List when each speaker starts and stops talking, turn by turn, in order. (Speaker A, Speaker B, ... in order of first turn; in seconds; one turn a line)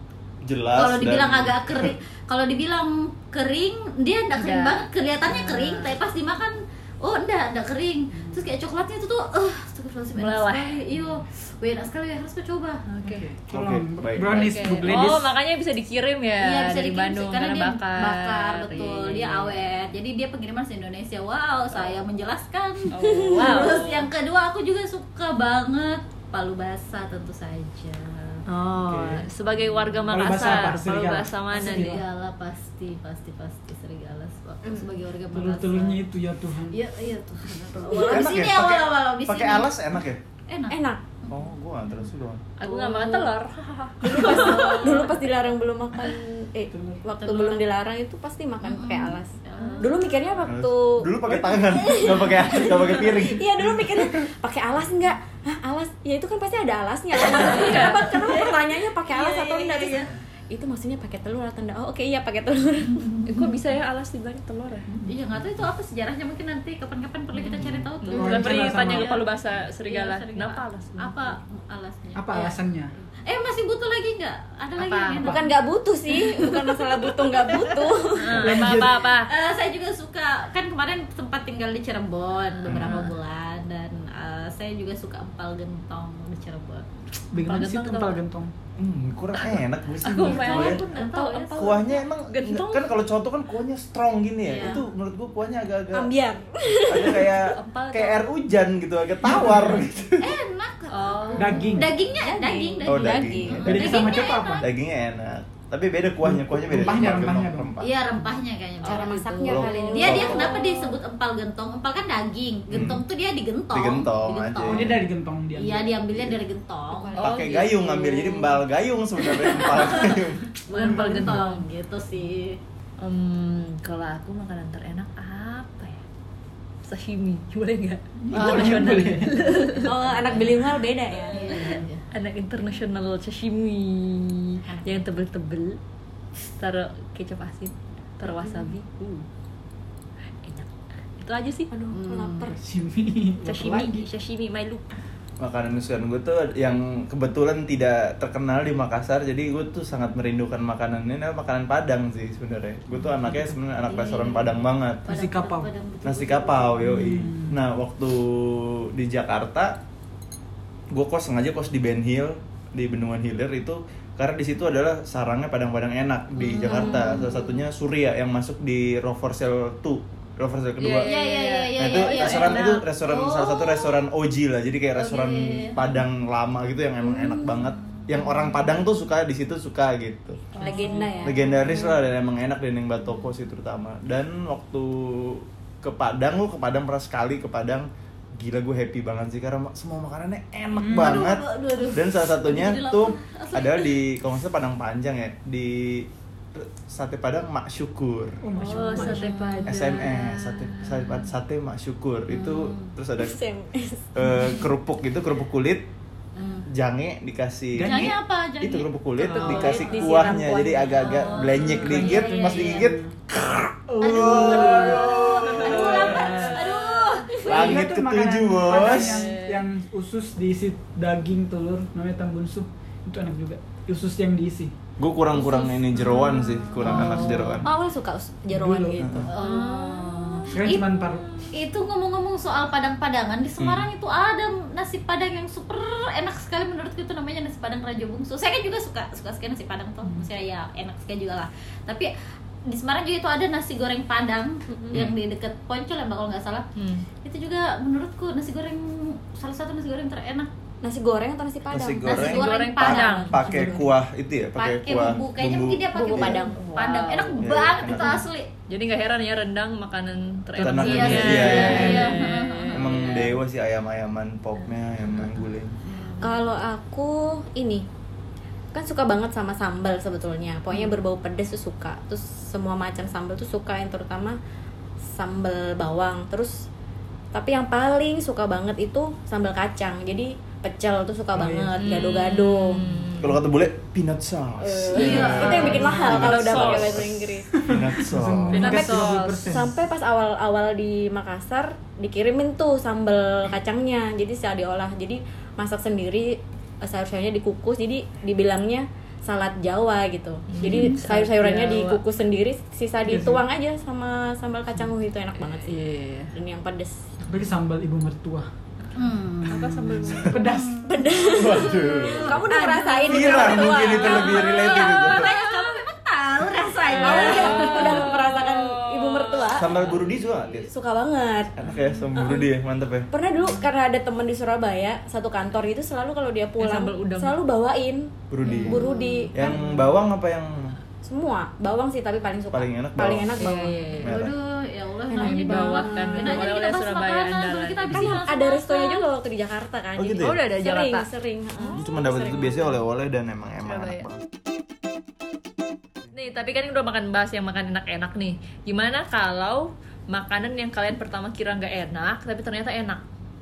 Speaker A: 0.4-1.9
Speaker B: 0.7-12.8
Speaker C: 4.4-5.9
Speaker D: 8.1-8.4
Speaker C: 10.2-10.8
Speaker C: 12.9-13.2
Speaker D: 13.0-15.3
Speaker A: 13.5-14.3
Speaker C: 14.3-19.5
Speaker B: 16.4-28.4
Speaker C: 22.9-24.1
Speaker E: 23.0-23.7
Speaker C: 28.5-32.0
Speaker D: 28.7-29.3
Speaker D: 30.1-32.0
Speaker B: 31.5-36.0
Speaker D: 35.3-36.8
Speaker B: 36.7-39.8
Speaker E: 37.8-38.3
Speaker A: 38.0-40.2
Speaker B: 40.5-41.4
Speaker E: 40.7-41.0
Speaker A: 41.3-42.5
Speaker C: 42.6-45.1
Speaker B: 42.6-43.3
Speaker E: 44.0-63.3
Speaker B: 44.1-45.2
Speaker D: 46.7-47.0
Speaker B: 47.2-47.6
Speaker B: 48.6-50.2
Speaker A: 50.5-54.3
Speaker B: 51.9-52.8
Speaker C: 57.3-58.4
Speaker B: 57.3-60.1
Speaker C: 63.3-64.9
Speaker B: 65.0-72.6
Speaker C: 67.4-71.4
Speaker A: 67.6-67.9
Speaker D: 68.2-69.1
Speaker D: 72.2-72.9
Speaker B: 73.2-75.6
Speaker C: 74.8-75.3
Speaker E: 75.2-78.6
Speaker B: 76.1-86.9
Speaker C: 78.2-79.3
Speaker D: 78.3-79.0
Speaker A: 82.7-83.0
Speaker C: 82.7-83.1
Speaker D: 87.3-88.5
Speaker C: 87.5-88.2
Speaker A: 88.8-90.8
Speaker C: 90.0-92.9
Speaker B: 90.1-91.8
Speaker A: 91.6-96.1
Speaker B: 94.5-94.9
Speaker E: 95.9-97.5
Speaker A: 96.7-100.4
Speaker C: 97.5-98.2
Speaker D: 99.3-99.8
Speaker B: 100.2-104.7
Speaker C: 100.9-101.9
Speaker D: 101.4-102.0
Speaker E: 102.0-104.2
Speaker A: 102.9-104.0
Speaker D: 103.6-104.7
Speaker A: 104.6-107.9
Speaker D: 106.2-107.7
Speaker B: 107.8-115.0
Speaker C: 108.8-110.7
Speaker E: 108.8-110.9
Speaker A: 109.5-110.5
Speaker A: 112.7-113.0
Speaker A: 113.7-115.0
Speaker D: 114.6-116.1
Speaker B: 115.6-117.2
Speaker E: 116.9-117.8
Speaker C: 117.1-118.6
Speaker A: 117.2-121.4
Speaker B: 119.5-122.6
Speaker C: 120.7-121.6
Speaker C: 123.0-126.0
Speaker C: 126.8-130.0
Speaker D: 128.2-129.5
Speaker B: 129.8-130.6
Speaker E: 129.8-131.7
Speaker B: 131.3-132.1
Speaker C: 131.3-135.8
Speaker B: 134.7-135.0
Speaker C: 136.4-139.3
Speaker C: 140.4-141.7
Speaker E: 141.7-142.6
Speaker B: 141.9-142.5
Speaker D: 142.5-144.1
Speaker C: 143.4-144.9
Speaker A: 145.4-155.0
Speaker D: 153.2-153.5
Speaker B: 153.7-157.1
Speaker D: 155.1-155.7
Speaker A: 156.1-159.8
Speaker D: 156.8-157.6
Speaker A: 160.9-171.1
Speaker B: 166.4-167.4
Speaker E: 166.6-167.2
Speaker C: 170.8-172.8
Speaker B: 171.0-174.1
Speaker A: 171.8-180.5
Speaker B: 174.9-175.8
Speaker B: 177.0-178.3
Speaker C: 180.6-181.0
Speaker B: 180.6-181.8
Speaker E: 180.6-181.8
Speaker D: 180.6-181.2
Speaker A: 181.2-198.4
Speaker D: 190.8-191.2
Speaker B: 190.8-193.9
Speaker D: 198.4-199.3
Speaker C: 198.6-201.3
Speaker B: 198.7-199.9
Speaker A: 199.7-203.4
Speaker B: 202.3-202.9
Speaker E: 203.2-204.1
Speaker A: 204.2-205.9
Speaker B: 206.4-206.7
Speaker A: 206.7-216.1
Speaker D: 207.7-208.2
Speaker B: 207.8-208.9
Speaker D: 209.2-210.6
Speaker E: 209.3-211.4
Speaker B: 209.5-210.0
Speaker B: 211.0-212.9
Speaker D: 211.4-213.1
Speaker D: 213.9-216.7
Speaker B: 214.0-217.5
Speaker C: 215.6-217.7
Speaker D: 217.4-224.7
Speaker A: 217.5-219.4
Speaker C: 218.8-219.7
Speaker A: 225.0-227.7
Speaker E: 225.4-225.7
Speaker E: 226.5-229.3
Speaker B: 226.8-227.6
Speaker C: 226.8-227.2
Speaker D: 226.9-227.2
Speaker D: 228.5-229.1
Speaker A: 229.0-229.3
Speaker B: 229.3-230.8
Speaker C: 229.4-231.5
Speaker D: 230.5-231.3
Speaker B: 231.5-242.1
Speaker A: 233.6-233.9
Speaker B: 242.7-246.7
Speaker C: 246.8-247.1
Speaker B: 247.2-250.5
Speaker E: 250.8-253.9
Speaker A: 251.7-256.5
Speaker B: 252.1-253.3
Speaker C: 252.2-253.4
Speaker D: 253.5-253.7
Speaker B: 254.6-258.5
Speaker E: 255.9-256.9
Speaker C: 256.5-257.4
Speaker A: 257.4-258.2
Speaker C: 258.7-263.4
Speaker D: 260.6-262.0
Speaker A: 260.6-262.2
Speaker B: 260.8-263.2
Speaker A: 262.7-265.8
Speaker C: 266.0-266.4
Speaker E: 266.2-267.9
Speaker E: 268.7-274.4
Speaker E: 275.1-276.7
Speaker E: 277.3-282.8
Speaker D: 281.3-281.8
Speaker C: 281.8-283.4
Speaker A: 283.2-288.9
Speaker E: 284.6-287.6
Speaker B: 284.9-286.1
Speaker C: 285.3-287.1
Speaker D: 287.5-289.8
Speaker C: 288.5-289.5
Speaker E: 289.5-307.0
Speaker C: 300.5-302.0
Speaker B: 300.6-301.0
Speaker D: 303.1-303.4
Speaker C: 305.4-306.3
Speaker D: 307.3-308.5
Speaker B: 308.9-318.2
Speaker C: 309.5-310.4
Speaker D: 309.6-310.9
Speaker E: 310.8-315.6
Speaker A: 311.2-312.5
Speaker A: 313.0-315.3
Speaker E: 316.6-319.9
Speaker C: 316.9-319.7
Speaker A: 319.6-320.7
Speaker E: 320.6-321.6
Speaker A: 321.6-323.1
Speaker E: 322.1-322.5
Speaker E: 323.1-329.7
Speaker C: 326.6-327.4
Speaker A: 328.3-330.8
Speaker B: 328.4-329.3
Speaker C: 328.5-328.8
Speaker E: 331.0-334.0
Speaker A: 332.5-333.3
Speaker C: 333.4-334.1
Speaker A: 334.0-334.3
Speaker B: 334.0-339.1
Speaker E: 335.1-336.5
Speaker C: 335.2-338.2
Speaker E: 338.0-342.8
Speaker A: 340.0-340.4
Speaker C: 340.2-341.1
Speaker A: 341.7-344.2
Speaker C: 343.6-344.1
Speaker C: 346.1-353.0